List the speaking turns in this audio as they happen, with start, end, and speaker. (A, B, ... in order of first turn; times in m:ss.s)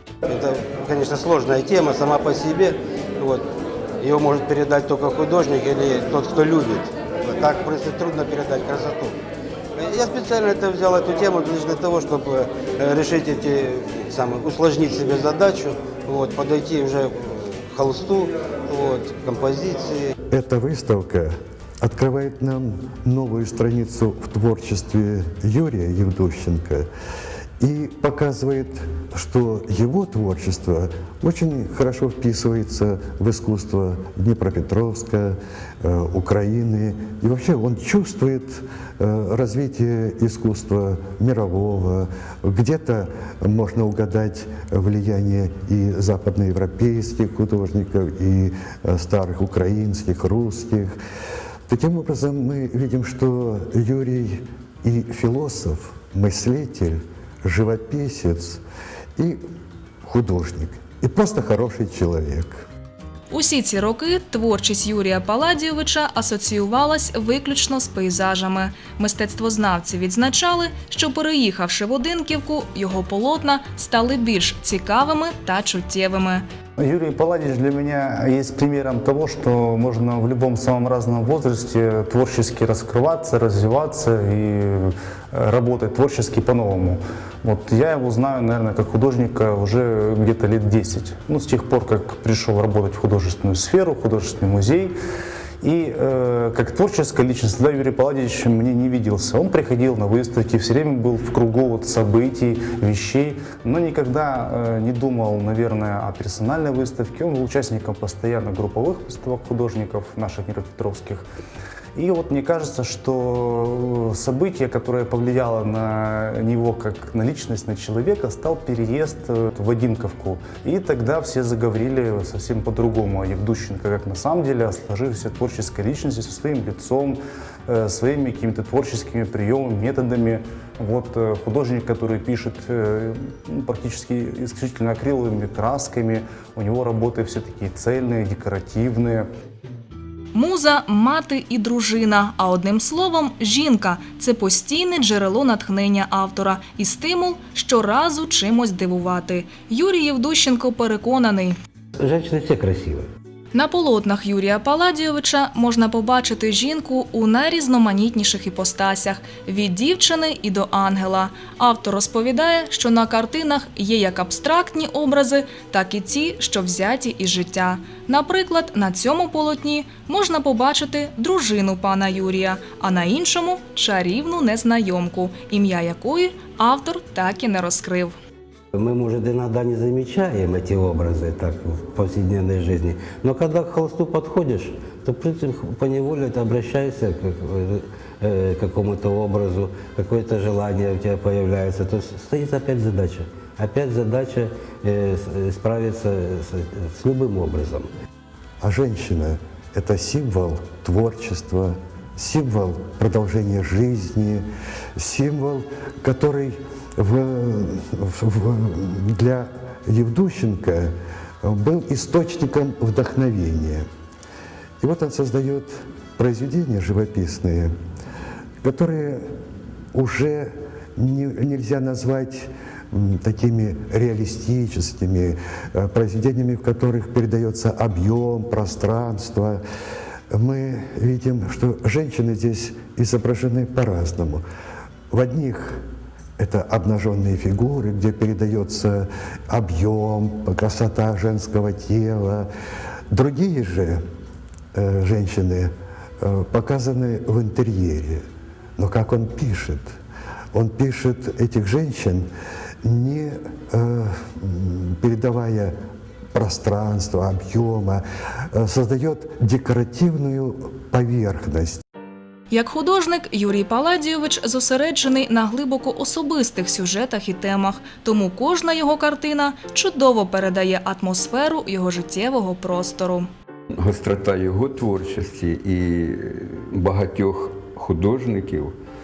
0:00.2-0:03.5 A
0:04.0-0:09.2 A
0:09.8-0:20.1 A
0:20.3-0:26.9 B
0:27.6-0:51.0 B
0:51.7-0:58.6 B
0:59.2-0:59.4 B
1:00.0-1:02.7 B
1:03.3-1:16.4 C
1:16.8-1:35.0 D
1:35.6-1:51.2 D
1:51.9-2:19.3 D
2:20.3-2:31.6 C
2:32.0-2:33.1 E
2:33.5-2:58.1 C
2:58.7-3:17.9 E
3:18.6-3:33.8 B
3:34.8-3:37.7 B
3:38.6-3:39.3 B
3:39.9-3:49.6 B
3:50.3-3:54.4 B
3:55.1-3:55.8 B
3:56.4-4:02.5 B
4:03.1-4:04.0 B
4:04.7-4:08.2 B
4:08.8-4:10.0 B
4:10.5-4:12.3 B
4:12.8-4:15.7 B
4:16.3-4:21.8 B
4:22.5-4:33.3 C
4:33.7-4:38.7 F